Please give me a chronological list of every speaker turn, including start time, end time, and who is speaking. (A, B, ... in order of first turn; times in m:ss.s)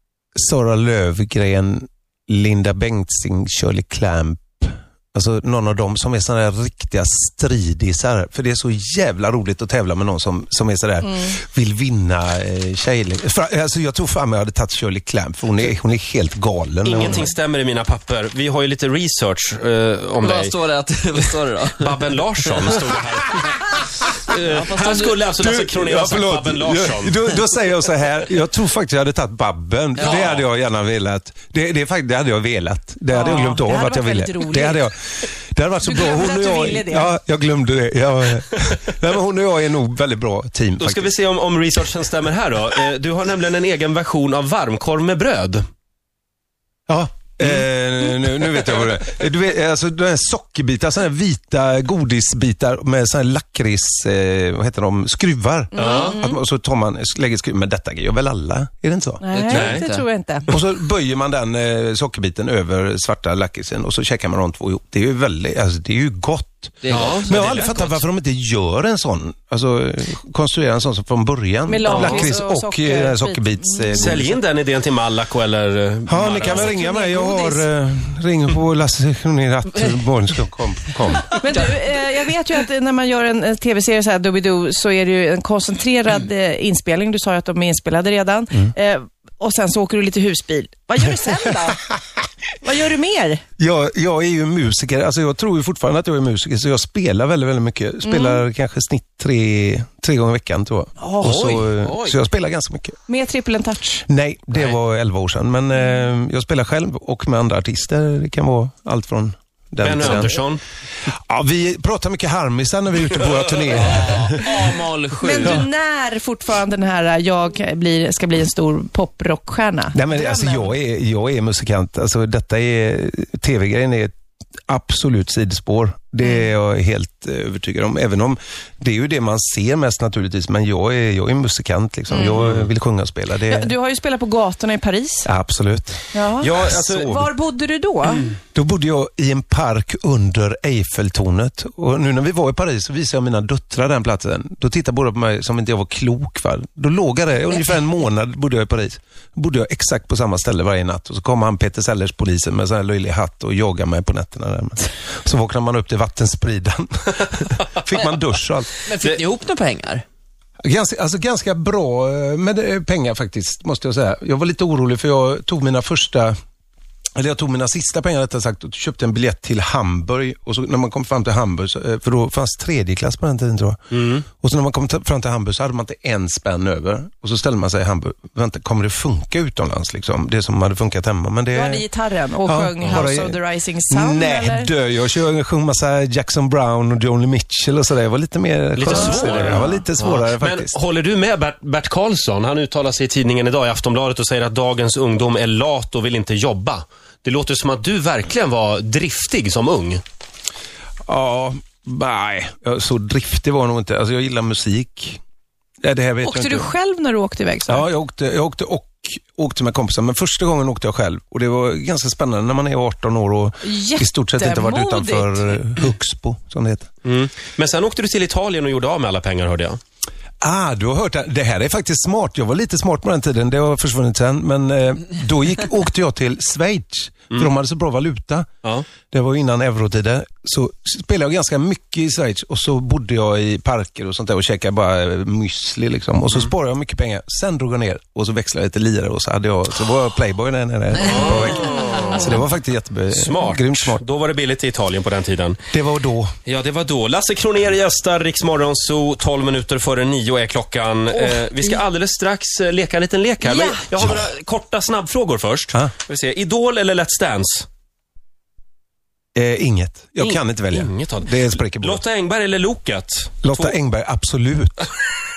0:00.4-0:17.3 A
0:16.8-0:20.6 B
0:20.2-0:22.8 C
0:21.8-0:23.6 B
0:24.2-0:27.2 B
0:24.4-0:25.3 C
0:25.4-0:41.1 A
0:30.0-0:30.4 C
0:30.0-0:30.4 B
0:33.1-0:34.8 D
0:35.8-0:37.1 D
0:40.8-0:45.6 B
0:46.9-0:59.2 A
0:55.7-0:56.4 D
0:55.8-0:56.2 B
0:59.2-1:00.5 D
0:59.3-1:00.0 C
0:59.5-0:59.8 B
1:00.5-1:14.3 A
1:06.8-1:07.5 C
1:06.9-1:08.0 B
1:11.7-1:14.2 D
1:11.9-1:12.2 C
1:12.0-1:12.3 B
1:13.9-1:16.8 B
1:16.1-1:21.4 A
1:16.6-1:17.6 D
1:21.4-1:31.8 D
1:32.6-1:33.4 D
1:33.6-1:43.0 A
1:38.0-1:38.4 D
1:41.1-1:42.2 C
1:43.1-1:44.0 D
1:44.1-1:50.4 A
1:49.8-1:50.6 B
1:51.1-1:54.6 A
1:53.7-1:55.6 C
1:55.2-2:00.7 D
1:59.9-2:04.1 A
2:04.7-2:13.7 A
2:12.1-2:12.4 D
2:12.4-2:12.7 B
2:13.5-2:15.3 D
2:15.2-2:17.2 A
2:16.1-2:18.3 D
2:16.4-2:17.0 B
2:18.6-2:38.7 A
2:38.8-2:40.0 C
2:40.6-2:46.4 A
2:47.2-3:01.9 A
2:53.9-2:54.2 B
3:01.5-3:04.7 D
3:02.4-3:10.7 A
3:02.8-3:03.1 B
3:08.8-3:20.0 B
3:08.9-3:09.8 D
3:21.1-3:25.2 A
3:25.8-3:26.7 A
3:26.2-3:27.8 D
3:27.7-3:36.9 A
3:33.6-3:35.6 D
3:37.0-3:39.8 B
3:40.4-3:48.5 A
3:49.1-4:04.0 A
4:01.0-4:02.4 B
4:03.1-4:05.6 B
4:05.7-4:06.3 A
4:06.5-4:17.7 B
4:11.1-4:11.8 D
4:13.4-4:13.8 D
4:14.0-4:14.3 A
4:19.4-4:22.0 A
4:20.2-4:23.8 B
4:23.4-4:24.9 A